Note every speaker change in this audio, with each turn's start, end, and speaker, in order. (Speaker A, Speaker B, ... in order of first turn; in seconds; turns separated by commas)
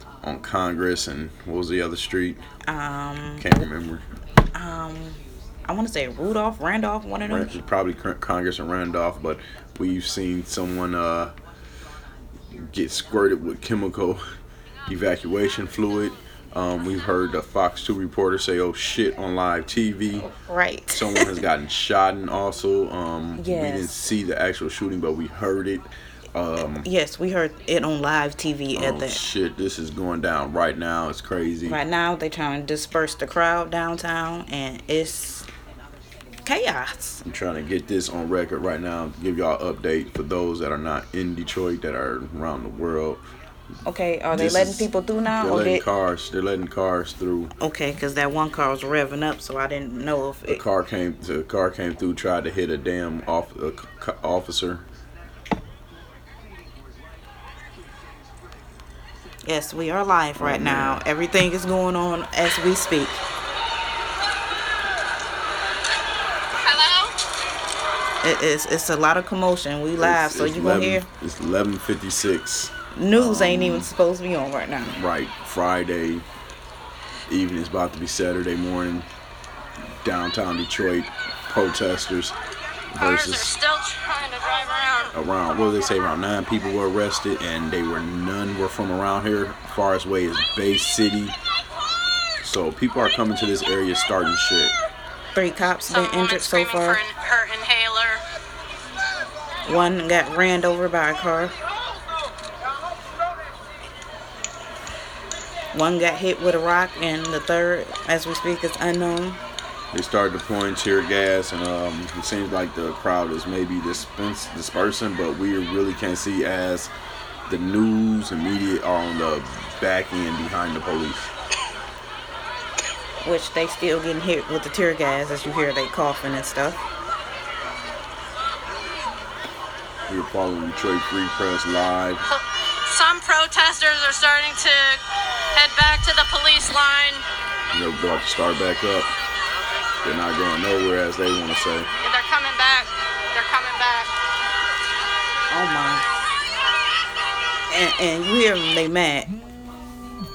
Speaker A: 0.2-2.4, Speaker B: 2.6-3.5, Speaker A: 3.4-4.0, Speaker B: 4.5-7.5, Speaker A: 7.3-11.3, Speaker A: 12.6-14.2, Speaker A: 14.9-20.3, Speaker B: 20.2-21.3, Speaker A: 20.9-26.9, Speaker B: 23.4-23.9, Speaker B: 26.8-29.2, Speaker A: 28.7-31.8, Speaker B: 31.7-35.5, Speaker B: 36.5-37.2, Speaker A: 37.2-43.2, Speaker B: 43.8-45.8, Speaker A: 44.3-47.5, Speaker B: 47.6-50.6, Speaker A: 50.5-54.8, Speaker B: 59.4-63.2, Speaker A: 60.4-61.0, Speaker C: 66.6-67.1, Speaker B: 68.2-71.0, Speaker A: 70.0-73.9, Speaker B: 72.9-75.0, Speaker A: 74.9-76.2, Speaker A: 77.3-79.1, Speaker A: 80.0-82.4, Speaker A: 82.9-83.5, Speaker C: 83.0-85.1, Speaker A: 85.1-91.4, Speaker A: 92.4-94.8, Speaker B: 95.3-97.0, Speaker C: 95.9-98.2, Speaker B: 99.7-101.5, Speaker B: 105.7-109.4, Speaker A: 109.9-116.9, Speaker A: 117.5-121.3, Speaker B: 123.2-126.8, Speaker A: 130.1-132.2, Speaker C: 132.3-135.0, Speaker C: 135.5-137.2, Speaker A: 137.7-139.1, Speaker A: 140.0-141.9, Speaker C: 142.0-144.1, Speaker B: 145.5-146.0, Speaker B: 147.7-149.3